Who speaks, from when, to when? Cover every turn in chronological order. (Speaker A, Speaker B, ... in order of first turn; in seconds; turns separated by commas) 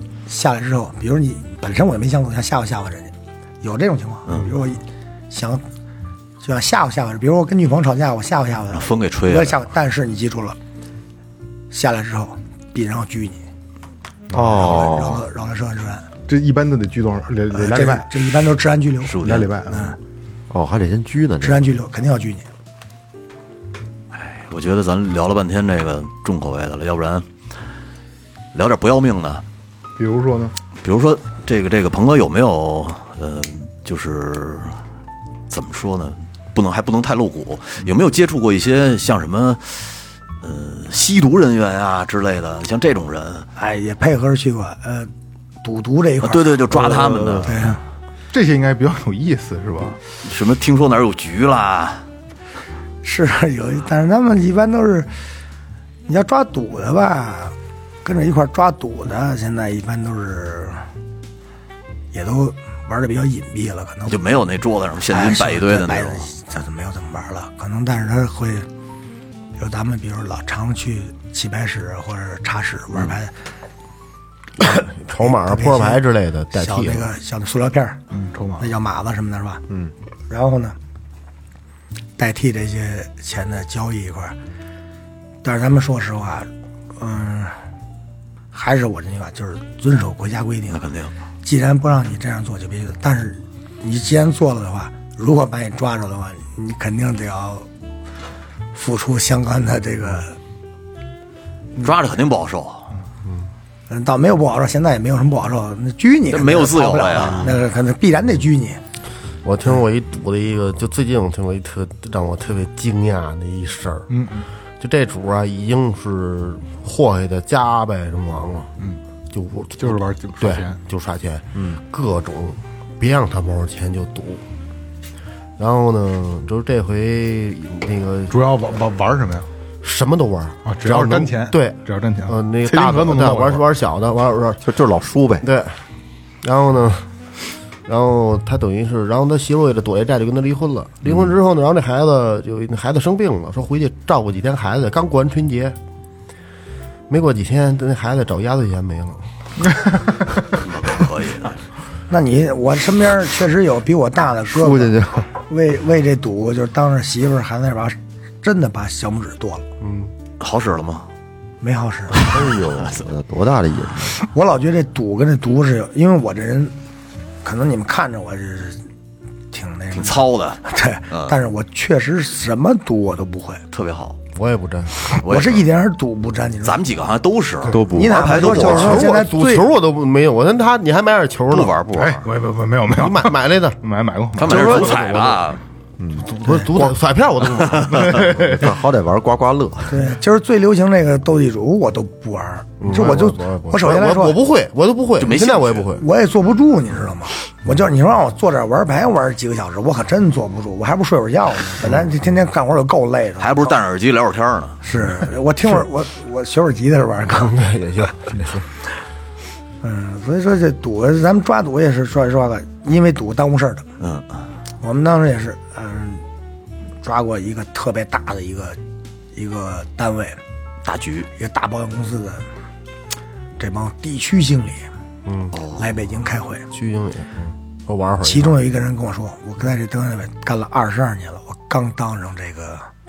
Speaker A: 0.3-5.7, Speaker A: 6.4-10.6, Speaker B: 8.7-9.7, Speaker A: 11.7-13.4, Speaker C: 14.3-14.6, Speaker D: 14.3-15.2, Speaker A: 14.5-16.1, Speaker C: 16.2-18.1, Speaker A: 17.5-20.0, Speaker B: 19.1-19.5, Speaker C: 19.2-20.0, Speaker D: 20.5-21.6, Speaker A: 21.4-22.5, Speaker B: 24.1-27.3, Speaker B: 28.5-29.4, Speaker C: 30.0-30.6, Speaker B: 30.8-34.8, Speaker B: 35.5-43.5, Speaker A: 43.6-45.1, Speaker A: 45.6-47.8, Speaker B: 46.2-47.7, Speaker C: 48.3-50.0, Speaker B: 50.2-52.0, Speaker A: 53.0-55.1, Speaker A: 56.1-60.8, Speaker A: 62.1-64.2, Speaker B: 64.1-66.3, Speaker A: 65.1-68.7, Speaker A: 69.6-73.3, Speaker A: 74.6-78.0, Speaker E: 74.7-77.1, Speaker C: 78.1-78.7, Speaker A: 78.6-79.6, Speaker A: 80.3-80.8, Speaker A: 82.2-84.4, Speaker A: 85.4-87.6, Speaker A: 88.5-90.8, Speaker B: 90.7-91.1, Speaker A: 91.4-97.7, Speaker A: 98.7-100.4, Speaker B: 101.8-102.9, Speaker A: 103.9-108.8, Speaker B: 106.3-107.6, Speaker E: 109.4-114.1, Speaker C: 114.1-114.5, Speaker E: 114.8-118.7, Speaker E: 119.3-124.5, Speaker C: 119.8-120.8, Speaker D: 121.5-121.8, Speaker E: 125.6-128.4, Speaker C: 128.3-129.5, Speaker E: 129.8-134.6, Speaker C: 130.7-133.7, Speaker D: 134.6-135.5, Speaker E: 135.4-135.8, Speaker E: 136.4-137.1, Speaker E: 137.9-145.8, Speaker E: 147.1-149.2, Speaker C: 149.7-150.1, Speaker B: 150.6-151.6, Speaker A: 152.1-159.7, Speaker D: 154.6-155.3, Speaker E: 159.8-160.1, Speaker B: 160.4-161.1, Speaker A: 161.6-162.3, Speaker B: 162.2-163.1, Speaker D: 162.2-164.3, Speaker A: 164.3-166.8, Speaker A: 167.4-168.8, Speaker A: 169.5-173.6, Speaker B: 169.9-171.3, Speaker B: 173.7-174.2, Speaker E: 174.3-175.0, Speaker B: 175.2-175.7, Speaker A: 175.2-176.8, Speaker B: 176.6-179.1, Speaker D: 177.7-178.9, Speaker A: 177.9-179.7, Speaker E: 178.3-181.8, Speaker B: 181.5-182.2, Speaker C: 181.9-185.2, Speaker E: 182.9-183.8, Speaker B: 184.4-185.6, Speaker E: 184.4-185.4, Speaker D: 186.0-186.3, Speaker E: 186.2-188.5, Speaker B: 187.6-188.0, Speaker C: 187.8-188.7, Speaker D: 188.3-190.0, Speaker A: 189.9-194.4, Speaker E: 192.8-196.0, Speaker B: 195.2-195.9, Speaker A: 196.0-203.8, Speaker B: 203.4-204.8, Speaker A: 204.8-207.6, Speaker E: 207.3-208.7, Speaker A: 209.8-213.9, Speaker B: 214.0-214.4, Speaker A: 214.8-216.2, Speaker A: 217.0-218.8, Speaker A: 219.3-220.4, Speaker B: 220.8-221.3, Speaker A: 221.3-222.5, Speaker A: 223.6-224.9, Speaker E: 225.3-225.6, Speaker B: 225.5-226.0, Speaker A: 225.8-226.7, Speaker E: 226.7-228.6, Speaker A: 228.2-232.9